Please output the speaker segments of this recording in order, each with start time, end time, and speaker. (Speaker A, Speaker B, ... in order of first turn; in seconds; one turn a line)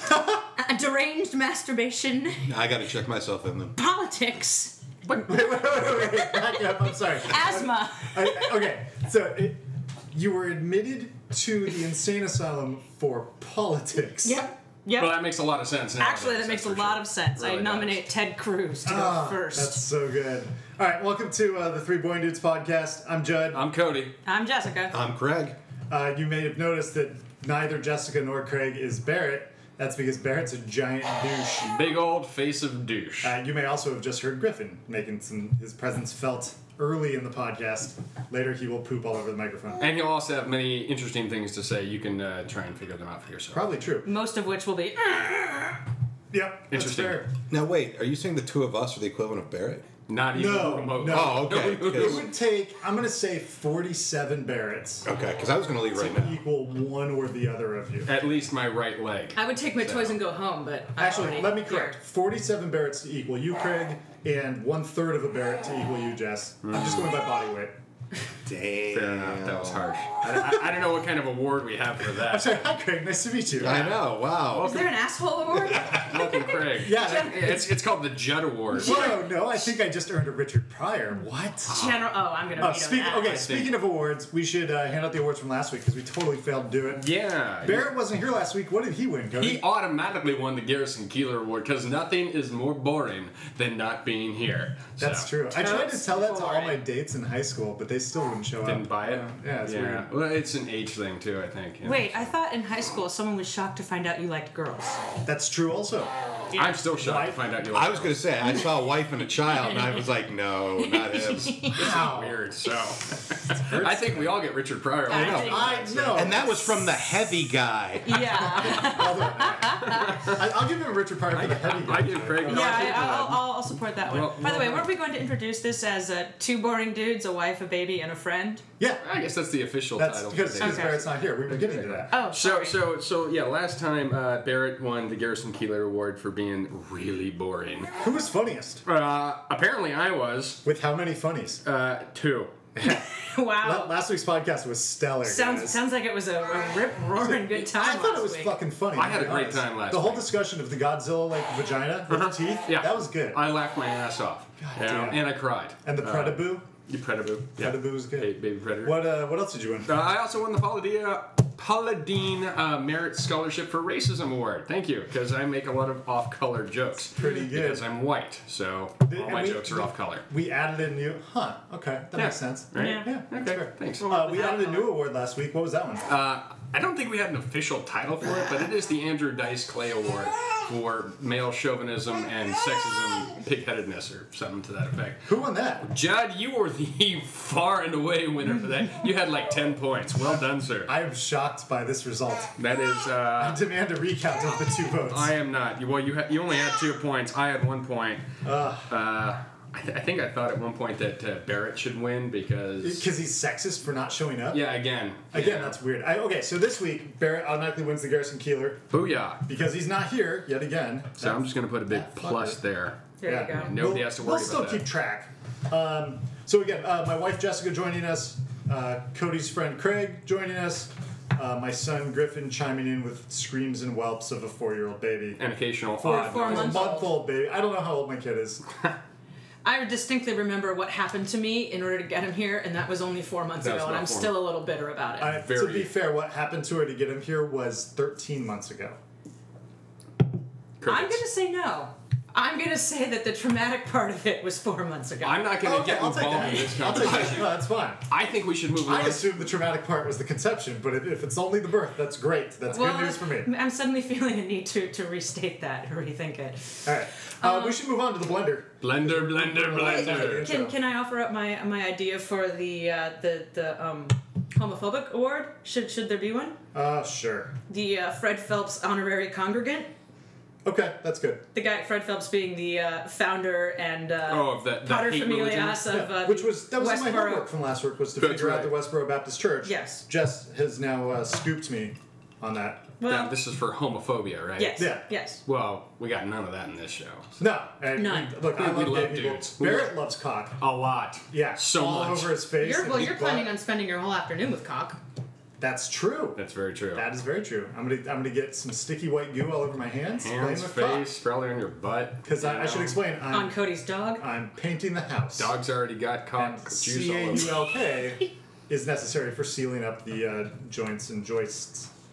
Speaker A: 0.5-2.5
Speaker B: 2.5-3.8
Speaker A: 3.8-4.8
Speaker C: 5.2-14.4
Speaker A: 5.9-6.5
Speaker A: 7.2-8.5
Speaker A: 14.2-15.3
Speaker D: 14.9-18.0
Speaker A: 16.0-19.8
Speaker C: 18.9-23.6
Speaker D: 23.5-24.2
Speaker A: 24.2-25.0
Speaker B: 24.9-25.6
Speaker C: 25.9-31.9
Speaker D: 31.6-33.4
Speaker C: 33.2-39.8
Speaker D: 39.8-43.7
Speaker C: 43.5-44.1
Speaker A: 44.0-45.8
Speaker C: 46.3-47.3
Speaker D: 46.7-47.2
Speaker B: 47.5-49.9
Speaker D: 50.1-52.3
Speaker C: 50.3-55.1
Speaker B: 51.0-52.3
Speaker B: 55.0-56.4
Speaker C: 55.9-58.1
Speaker D: 58.1-60.2
Speaker A: 59.4-62.0
Speaker C: 61.0-67.8
Speaker D: 66.6-67.1
Speaker B: 68.5-69.9
Speaker D: 68.9-72.6
Speaker C: 70.3-70.6
Speaker C: 72.1-73.9
Speaker B: 73.6-74.8
Speaker D: 73.6-75.0
Speaker A: 74.5-77.6
Speaker B: 75.5-76.2
Speaker D: 75.7-79.2
Speaker C: 76.7-77.7
Speaker C: 78.7-82.0
Speaker A: 78.8-79.2
Speaker A: 81.7-83.5
Speaker D: 81.7-82.0
Speaker C: 82.6-87.1
Speaker D: 83.3-83.8
Speaker D: 87.0-87.9
Speaker C: 87.6-89.6
Speaker D: 89.4-95.3
Speaker C: 95.0-100.1
Speaker A: 95.5-96.8
Speaker D: 98.6-102.3
Speaker A: 101.8-105.0
Speaker C: 105.2-106.1
Speaker A: 106.5-106.8
Speaker D: 106.5-108.2
Speaker C: 106.9-107.4
Speaker B: 107.7-111.7
Speaker A: 110.9-111.8
Speaker D: 111.7-116.2
Speaker C: 111.8-112.4
Speaker C: 113.5-114.4
Speaker A: 115.1-116.6
Speaker C: 115.1-116.9
Speaker B: 116.1-118.6
Speaker A: 118.0-120.3
Speaker C: 118.5-123.3
Speaker D: 119.8-120.5
Speaker D: 121.3-124.9
Speaker A: 122.5-128.6
Speaker D: 129.0-137.9
Speaker C: 130.0-132.2
Speaker A: 130.6-131.0
Speaker A: 132.1-132.8
Speaker C: 138.0-138.8
Speaker D: 138.9-140.6
Speaker C: 140.6-141.6
Speaker D: 141.6-142.6
Speaker C: 142.8-143.1
Speaker A: 142.8-143.9
Speaker C: 143.6-145.8
Speaker A: 145.2-148.6
Speaker C: 147.2-153.5
Speaker D: 148.9-150.3
Speaker D: 152.1-159.1
Speaker C: 154.6-155.3
Speaker C: 155.8-156.7
Speaker C: 157.6-159.9
Speaker D: 159.9-170.3
Speaker C: 167.2-167.9
Speaker C: 169.1-176.1
Speaker D: 172.1-174.6
Speaker A: 172.8-173.1
Speaker A: 174.0-174.9
Speaker D: 176.1-185.3
Speaker C: 185.3-185.9
Speaker D: 185.8-190.9
Speaker C: 190.2-192.5
Speaker D: 192.6-193.6
Speaker C: 193.4-195.3
Speaker D: 195.0-198.3
Speaker C: 198.4-198.9
Speaker D: 198.9-203.1
Speaker C: 202.8-204.7
Speaker D: 204.5-205.8
Speaker C: 205.3-208.8
Speaker D: 208.9-209.4
Speaker C: 209.5-212.6
Speaker D: 211.2-214.9
Speaker A: 213.2-213.8
Speaker C: 213.2-225.4
Speaker D: 225.4-226.9
Speaker C: 225.9-228.6
Speaker A: 226.0-227.2
Speaker A: 229.6-235.4
Speaker D: 233.6-234.5
Speaker C: 235.2-239.0
Speaker D: 235.3-235.9
Speaker D: 240.8-241.2
Speaker A: 240.8-245.6
Speaker D: 245.2-249.4
Speaker C: 245.6-248.1
Speaker C: 248.7-253.5
Speaker A: 252.7-257.8
Speaker C: 256.9-260.8
Speaker D: 258.8-260.5
Speaker A: 259.8-266.6
Speaker C: 266.7-267.5
Speaker A: 267.7-269.9
Speaker C: 270.6-271.4
Speaker A: 271.5-277.5
Speaker D: 274.3-275.9
Speaker C: 275.9-282.9
Speaker D: 278.2-278.8
Speaker A: 279.6-280.1
Speaker A: 283.0-283.4
Speaker D: 283.0-284.9
Speaker A: 284.6-285.4
Speaker C: 284.8-285.1
Speaker D: 285.4-287.3
Speaker C: 287.4-293.5
Speaker A: 288.0-288.4
Speaker D: 288.5-290.0
Speaker D: 291.1-292.5
Speaker A: 292.6-295.0
Speaker C: 295.6-296.4
Speaker D: 296.4-297.1
Speaker C: 296.9-301.1
Speaker D: 300.2-303.0
Speaker C: 302.2-303.6
Speaker A: 303.3-304.2
Speaker C: 304.2-305.5
Speaker D: 305.4-307.7
Speaker C: 306.4-311.9